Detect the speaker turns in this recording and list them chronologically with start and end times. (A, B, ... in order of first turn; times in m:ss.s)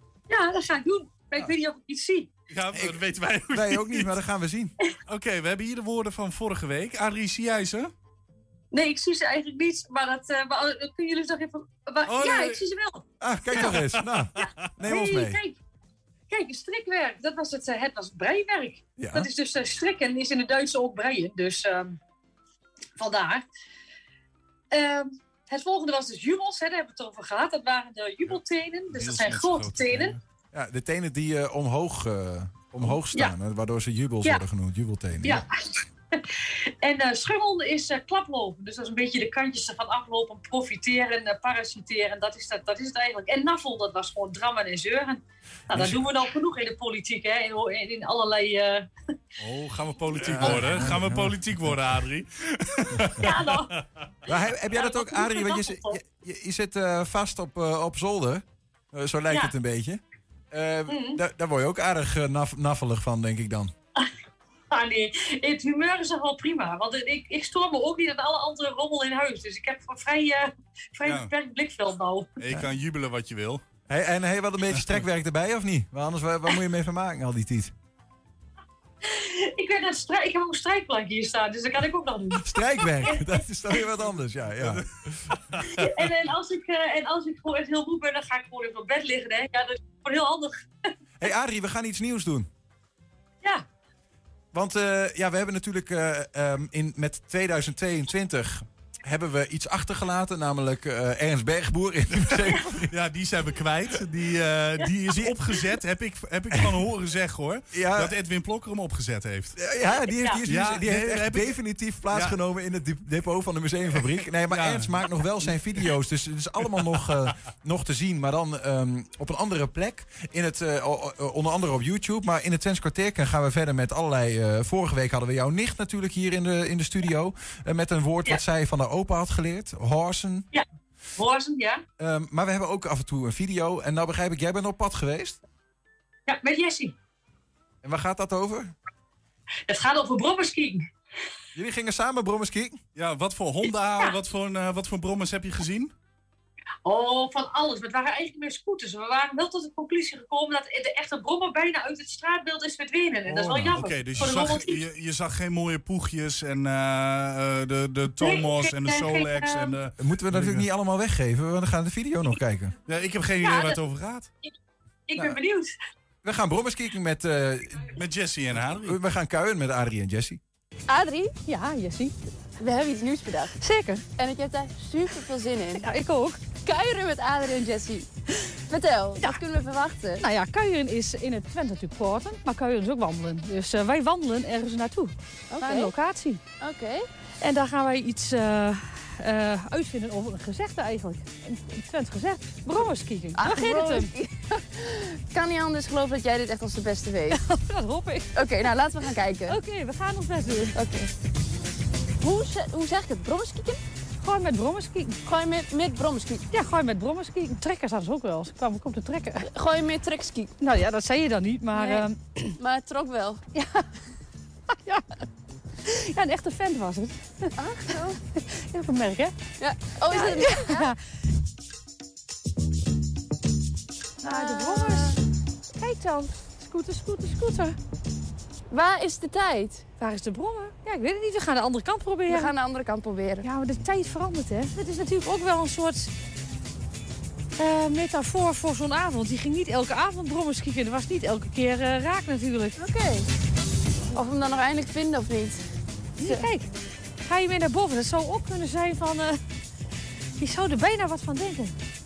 0:00.3-0:02.3 A
0:02.5-0:04.1 B
0:02.7-0:03.0 C
0:03.5-0:04.7 C
0:05.0-0:07.9 B
0:08.7-0:13.0 A
0:12.1-0:12.6 B
0:13.2-0:15.4 C
0:13.5-0:14.5 B
0:14.8-0:15.6 A
0:16.3-0:22.0 A
0:19.0-0:19.3 C
0:23.0-0:23.4 A
0:24.7-0:30.2 A
0:28.9-0:30.2 B
0:30.5-0:35.4 C
0:32.9-0:33.3 A
0:35.2-0:36.2 A
0:36.8-0:48.9 A
0:49.4-0:53.8 B
0:50.1-0:51.4 C
0:50.4-0:50.7 A
0:53.2-0:53.7 A
0:54.3-1:03.7 C
0:54.7-0:56.0 A
1:00.9-1:01.2 A
1:04.7-1:12.3 A
1:11.0-1:11.3 B
1:12.4-1:13.6 B
1:13.9-1:17.7 C
1:19.0-1:23.3 A
1:22.4-1:24.8 C
1:25.5-1:25.8 B
1:25.7-1:30.6 A
1:31.2-1:32.5 C
1:34.5-1:42.9 C
1:42.8-1:49.6 B
1:45.1-1:45.4 C
1:47.7-1:48.1 C
1:49.6-2:10.5 C
1:50.2-1:50.4 A
1:50.4-1:51.6 B
1:52.1-1:52.4 B
1:54.5-1:55.0 B
2:11.2-2:11.8 A
2:12.0-2:15.4 C
2:16.3-2:16.9 A
2:17.8-2:18.7 C
2:19.7-2:20.9 A
2:21.5-2:22.8 C
2:22.9-2:25.9 B
2:26.8-2:34.8 A
2:33.3-2:33.8 C
2:33.7-2:40.6 B
2:38.2-2:39.7 A
2:40.0-2:42.7 C
2:42.9-2:44.3 B
2:43.4-2:43.8 A
2:45.1-2:45.7 A
2:46.2-2:47.9 C
2:48.0-2:49.0 B
2:48.5-2:50.4 C
2:50.9-2:51.3 D
2:51.4-2:52.1 E
2:52.6-2:53.6 D
2:53.6-2:54.0 E
2:54.1-2:55.8 D
2:55.8-2:56.5 E
2:56.5-2:58.1 D
2:58.7-3:00.2 D
3:00.2-3:06.4 E
3:05.5-3:05.9 D
3:06.6-3:07.1 D
3:07.4-3:14.1 E
3:13.3-3:17.4 D
3:17.3-3:18.3 E
3:18.3-3:19.6 D
3:19.5-3:20.8 E
3:20.7-3:21.1 D
3:22.2-3:23.8 D
3:24.2-3:25.2 E
3:25.2-3:26.4 D
3:26.5-3:29.4 E
3:29.4-3:30.5 D
3:30.6-3:32.2 E
3:31.7-3:33.4 D
3:33.5-3:33.9 E
3:35.8-3:39.3 E
3:37.6-3:38.2 D
3:39.6-3:40.9 D
3:40.1-3:41.0 E
3:44.2-3:45.2 E
3:44.2-3:45.2 D
3:45.8-3:47.8 E
3:48.7-3:49.8 D
3:50.0-3:52.5 E
3:52.3-3:53.4 D
3:53.4-3:56.1 E
3:57.6-4:02.8 E
4:02.8-4:03.2 D
4:04.1-4:05.6 D
4:06.2-4:06.7 E
4:06.2-4:06.4 D
4:07.2-4:09.4 E
4:10.4-4:11.7 E